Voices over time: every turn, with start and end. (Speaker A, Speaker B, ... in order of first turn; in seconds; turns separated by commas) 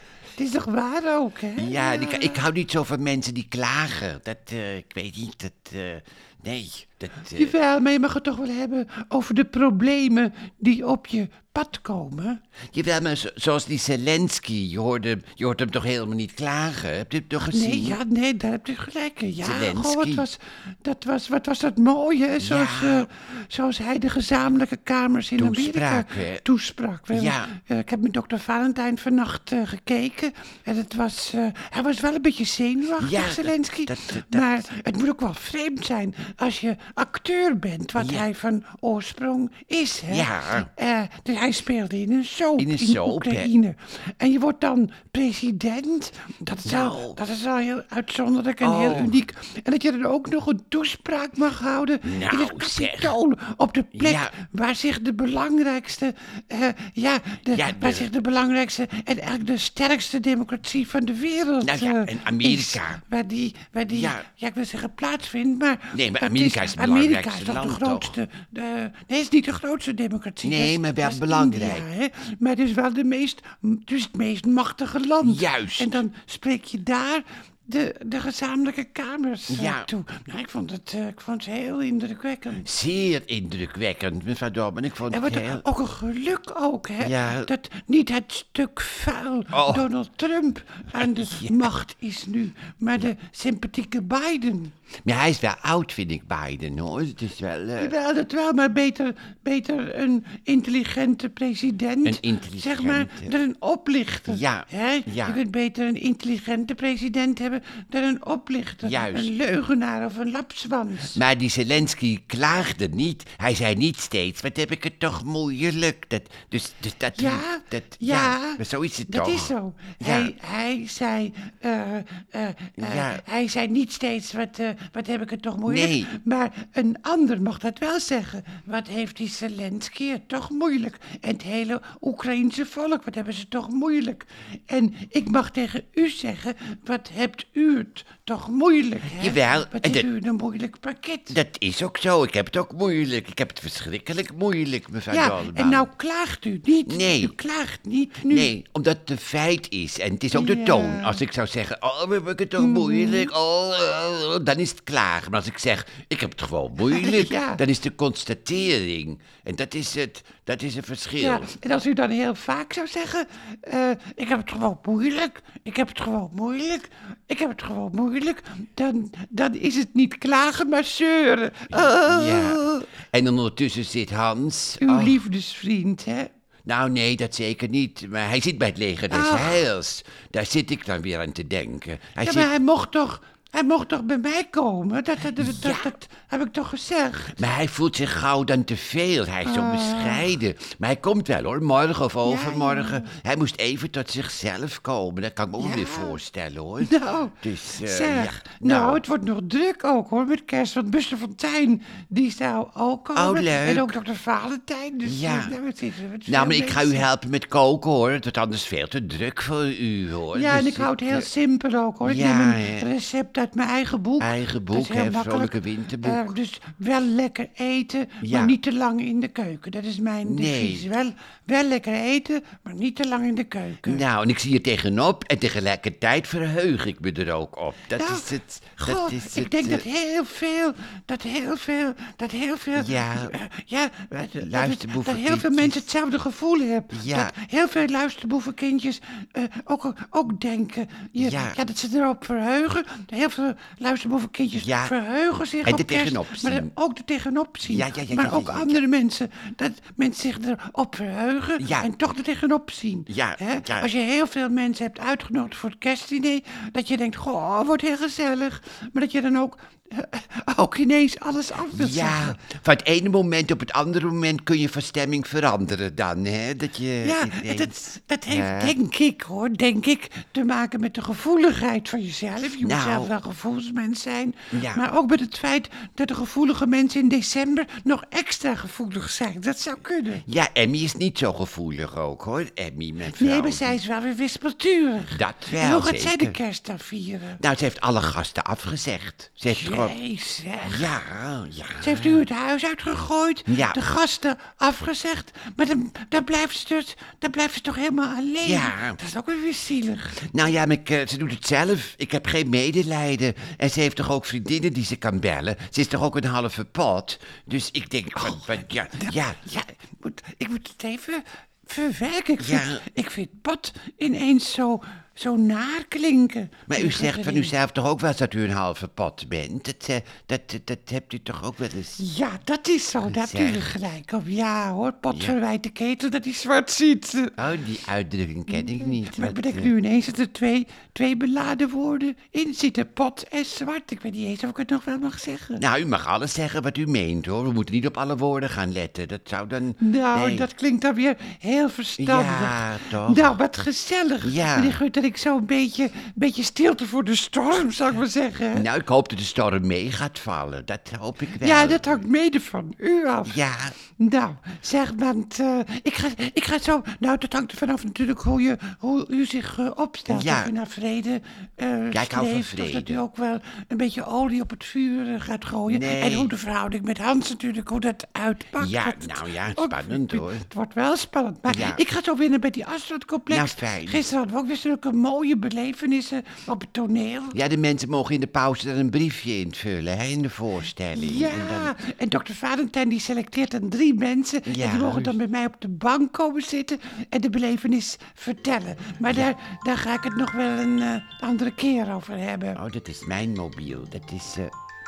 Speaker A: 0.4-2.4, Speaker B: 1.6-7.5, Speaker A: 7.3-12.4, Speaker B: 12.7-18.0, Speaker A: 17.4-82.7, Speaker B: 19.4-20.2, Speaker B: 22.4-23.1, Speaker B: 25.4-26.4, Speaker B: 27.1-27.5, Speaker B: 33.0-34.5, Speaker B: 38.0-38.2, Speaker B: 40.1-40.7, Speaker B: 42.6-43.5, Speaker B: 46.6-47.2, Speaker B: 48.6-49.1, Speaker B: 52.0-53.1, Speaker B: 53.9-54.3, Speaker B: 57.5-58.1, Speaker B: 61.6-63.0, Speaker B: 63.9-64.2, Speaker B: 65.9-68.2, Speaker B: 70.4-71.9, Speaker B: 75.2-76.0, Speaker B: 79.5-79.9, Speaker B: 82.6-85.6, Speaker A: 85.1-94.7, Speaker B: 87.0-87.5, Speaker B: 89.5-89.8, Speaker B: 90.9-91.7, Speaker B: 95.0-97.9, Speaker A: 97.8-111.2, Speaker B: 102.0-103.3, Speaker B: 104.3-105.4, Speaker B: 108.8-109.3, Speaker B: 111.1-120.3, Speaker A: 117.1-141.3, Speaker B: 122.8-123.2, Speaker B: 125.7-126.1, Speaker B: 139.0-140.1, Speaker B: 141.3-145.9, Speaker A: 145.1-148.5, Speaker B: 146.9-147.3, Speaker B: 148.3-161.5, Speaker A: 150.3-151.2, Speaker A: 152.6-153.3, Speaker A: 156.8-157.6, Speaker A: 161.2-172.9, Speaker B: 171.7-175.2, Speaker A: 174.8-176.3, Speaker B: 176.6-182.5, Speaker A: 179.1-179.6, Speaker A: 182.2-187.4, Speaker B: 185.4-185.9, Speaker B: 187.4-199.0, Speaker A: 189.4-190.3, Speaker A: 192.2-193.1, Speaker A: 195.6-196.2, Speaker A: 196.8-207.1, Speaker B: 203.1-203.9, Speaker B: 205.1-205.6, Speaker B: 206.3-211.3, Speaker A: 210.3-224.0, Speaker B: 212.0-212.9, Speaker B: 214.2-216.3, Speaker B: 218.2-218.6, Speaker B: 220.2-220.8, Speaker B: 223.8-229.8, Speaker A: 228.0-262.4, Speaker B: 232.8-233.3, Speaker B: 234.2-235.9, Speaker B: 236.9-237.3, Speaker B: 241.2-241.6, Speaker B: 244.6-244.9, Speaker B: 245.6-246.7, Speaker B: 247.6-248.8, Speaker B: 251.6-251.9, Speaker B: 253.1-253.9, Speaker B: 261.7-267.7, Speaker A: 267.0-280.2, Speaker B: 268.3-268.8, Speaker B: 272.6-273.1, Speaker B: 274.5-274.8, Speaker B: 280.2-283.8, Speaker A: 283.1-287.4, Speaker B: 285.1-286.4, Speaker B: 287.4-289.9, Speaker A: 289.5-290.9, Speaker B: 290.6-292.2, Speaker A: 291.8-300.3, Speaker B: 293.5-293.8, Speaker B: 298.4-299.0, Speaker B: 300.2-309.4, Speaker A: 308.2-317.5, Speaker B: 312.4-312.8, Speaker B: 316.7-322.0, Speaker A: 322.0-327.4, Speaker B: 323.0-323.7, Speaker B: 325.1-325.4, Speaker B: 327.4-329.7, Speaker A: 328.5-335.6, Speaker B: 335.6-340.5, Speaker A: 339.8-348.7, Speaker B: 342.0-343.4, Speaker B: 344.2-344.8, Speaker B: 348.5-352.0, Speaker A: 351.3-377.4, Speaker B: 353.2-353.8, Speaker B: 360.1-360.5, Speaker B: 361.9-363.0, Speaker B: 365.7-366.3, Speaker B: 368.6-370.5, Speaker B: 371.5-371.8, Speaker B: 373.3-374.1, Speaker B: 377.3-381.7, Speaker A: 380.9-392.6, Speaker B: 384.5-385.2, Speaker B: 392.6-394.5